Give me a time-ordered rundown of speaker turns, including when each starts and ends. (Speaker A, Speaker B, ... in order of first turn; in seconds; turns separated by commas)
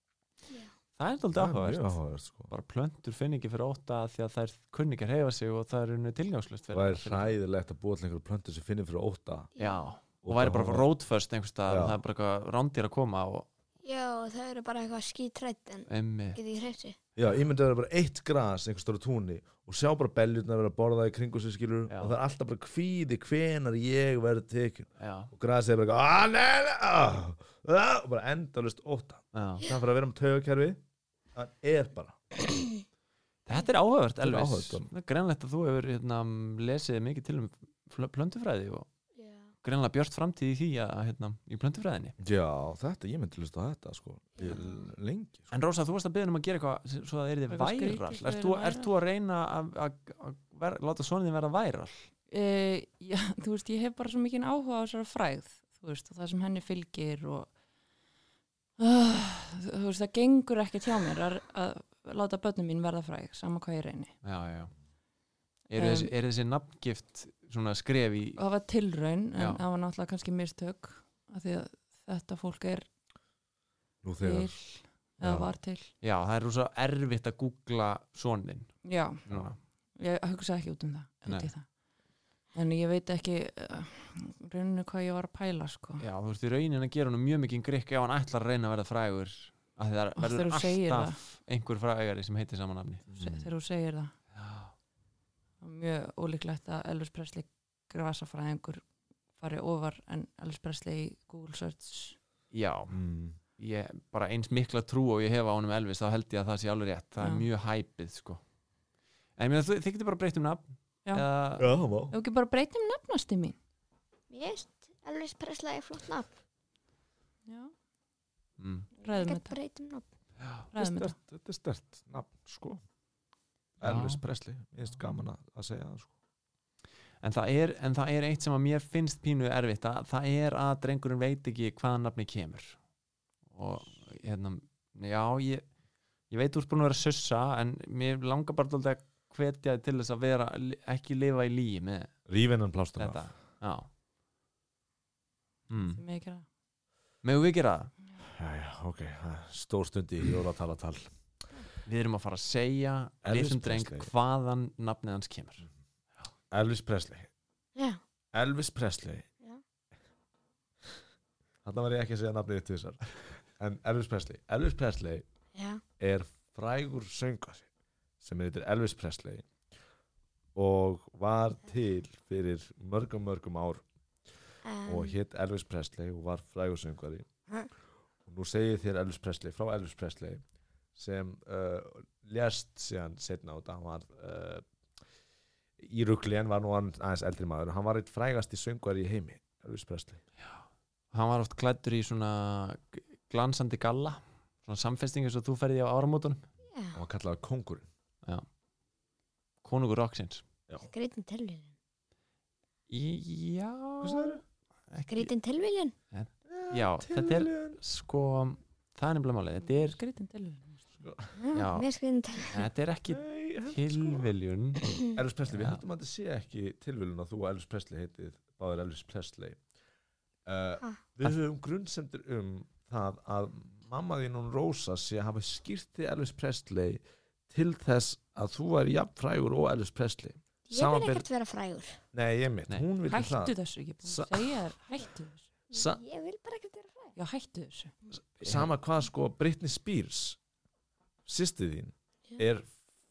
Speaker A: 0.5-0.7, Speaker B: 1.0-7.4, Speaker C: 1.3-2.5, Speaker C: 6.7-9.5, Speaker A: 9.6-9.9, Speaker B: 9.6-13.5, Speaker C: 10.2-10.9, Speaker C: 11.7-12.0, Speaker A: 13.8-17.0, Speaker B: 15.9-16.4, Speaker C: 17.2-30.8, Speaker B: 21.9-22.1, Speaker B: 25.0-25.3, Speaker B: 29.3-29.7, Speaker C: 31.4-32.2, Speaker B: 33.5-38.9, Speaker C: 34.2-34.9, Speaker A: 39.1-39.5, Speaker B: 39.6-42.1, Speaker C: 42.2-45.5, Speaker A: 44.4-44.9, Speaker B: 45.5-52.1, Speaker D: 47.5-48.9, Speaker D: 52.3-57.5, Speaker D: 58.8-64.1, Speaker B: 64.2-64.7, Speaker B: 65.7-68.4, Speaker D: 65.8-66.1, Speaker D: 68.4-72.9, Speaker B: 69.3-69.6, Speaker C: 74.0-74.6, Speaker D: 74.2-75.9, Speaker C: 75.2-75.5, Speaker B: 76.0-79.6, Speaker D: 78.8-79.2, Speaker C: 79.3-79.5, Speaker D: 80.0-81.7, Speaker D: 82.5-86.0, Speaker B: 86.0-93.0, Speaker D: 90.2-91.2, Speaker C: 93.1-93.5, Speaker D: 93.1-94.1, Speaker B: 94.4-94.7, Speaker D: 95.6-98.8, Speaker D: 99.4-102.2, Speaker B: 102.5-102.9, Speaker C: 102.9-103.4, Speaker B: 103.6-108.4, Speaker D: 107.2-107.5, Speaker B: 109.4-111.7, Speaker C: 111.6-112.1, Speaker D: 112.1-113.6, Speaker A: 114.3-116.3, Speaker D: 117.5-117.7, Speaker B: 118.6-118.9, Speaker A: 119.0-120.0, Speaker D: 119.0-119.5, Speaker B: 120.4-120.7, Speaker D: 120.7-121.1, Speaker C: 120.8-122.8, Speaker C: 123.8-126.1, Speaker B: 123.8-124.2, Speaker B: 127.2-132.8, Speaker B: 133.5-135.6, Speaker B: 136.3-142.1, Speaker C: 142.3-143.3, Speaker B: 143.0-143.9, Speaker B: 145.7-146.0, Speaker D: 145.8-146.5, Speaker B: 147.2-147.9, Speaker C: 148.2-151.1, Speaker B: 151.8-155.7, Speaker C: 153.2-154.1, Speaker C: 156.5-157.3, Speaker C: 158.3-159.2, Speaker C: 161.6-165.2, Speaker A: 165.5-165.8, Speaker C: 166.0-167.7, Speaker C: 168.2-169.5, Speaker C: 170.5-173.8, Speaker A: 174.6-175.2, Speaker C: 174.8-177.3, Speaker C: 178.3-180.4, Speaker C: 180.9-184.6, Speaker C: 185.8-190.2, Speaker B: 191.1-196.4, Speaker A: 196.7-197.0, Speaker C: 196.9-197.9, Speaker B: 199.6-200.4, Speaker A: 200.9-201.7, Speaker B: 202.9-205.3, Speaker C: 204.0-204.4, Speaker A: 205.1-205.9, Speaker B: 206.1-210.0, Speaker C: 206.5-207.8, Speaker D: 209.7-210.8, Speaker C: 211.0-211.4, Speaker A: 211.4-212.7, Speaker B: 211.5-211.9, Speaker B: 212.4-214.9, Speaker C: 213.1-214.3, Speaker C: 215.1-219.6, Speaker B: 215.5-215.8, Speaker C: 220.5-231.3, Speaker A: 230.7-232.0, Speaker C: 232.1-234.6, Speaker D: 233.1-235.5, Speaker A: 235.7-237.2, Speaker D: 237.2-237.9, Speaker C: 238.4-240.4, Speaker B: 238.4-238.7, Speaker C: 241.2-242.8